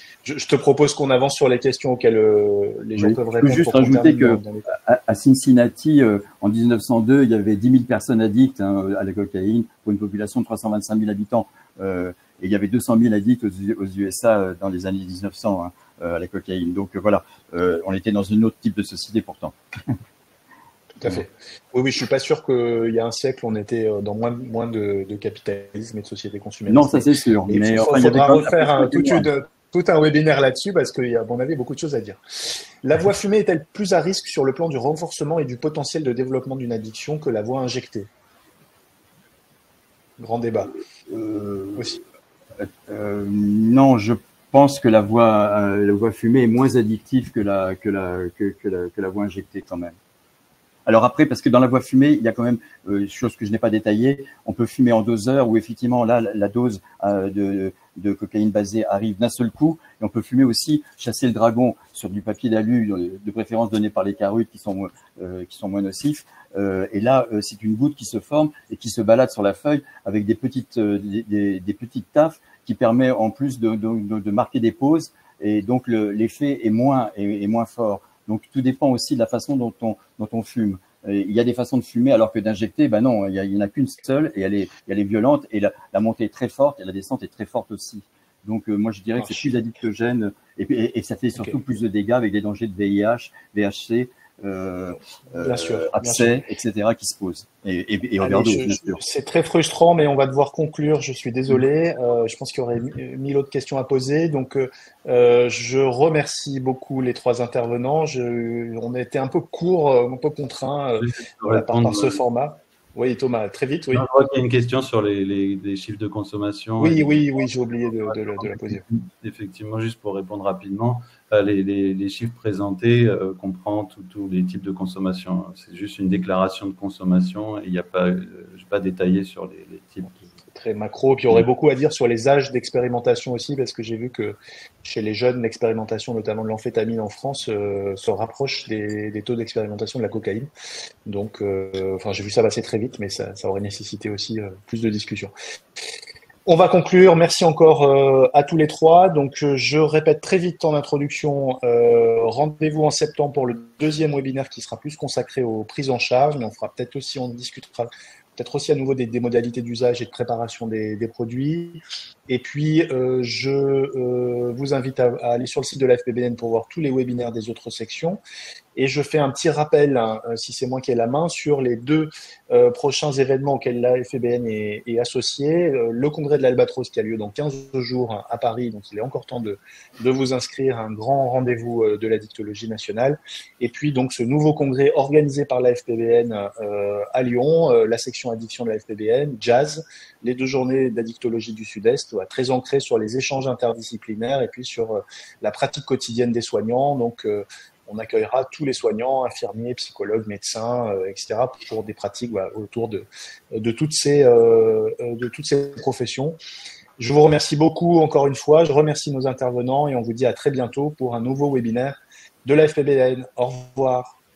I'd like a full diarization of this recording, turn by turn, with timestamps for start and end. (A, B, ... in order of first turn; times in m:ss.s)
0:00.2-0:04.7 A
0:03.0-0:19.9 B
0:21.0-0:38.1 A
0:26.7-0:29.3 B
0:40.2-0:40.7 A
0:41.1-0:42.0 B
0:42.6-0:50.0 B
0:50.9-1:39.0 B
1:29.2-1:29.6 A
1:35.3-1:36.4 A
1:38.2-1:54.1 A
1:51.0-1:52.2 C
1:53.9-1:57.3 C
1:56.8-1:58.8 A
1:57.9-2:10.3 C
2:10.5-2:20.5 A
2:21.1-2:25.3 A
2:26.5-2:48.2 A
2:48.8-3:26.4 A
3:27.0-3:34.2 A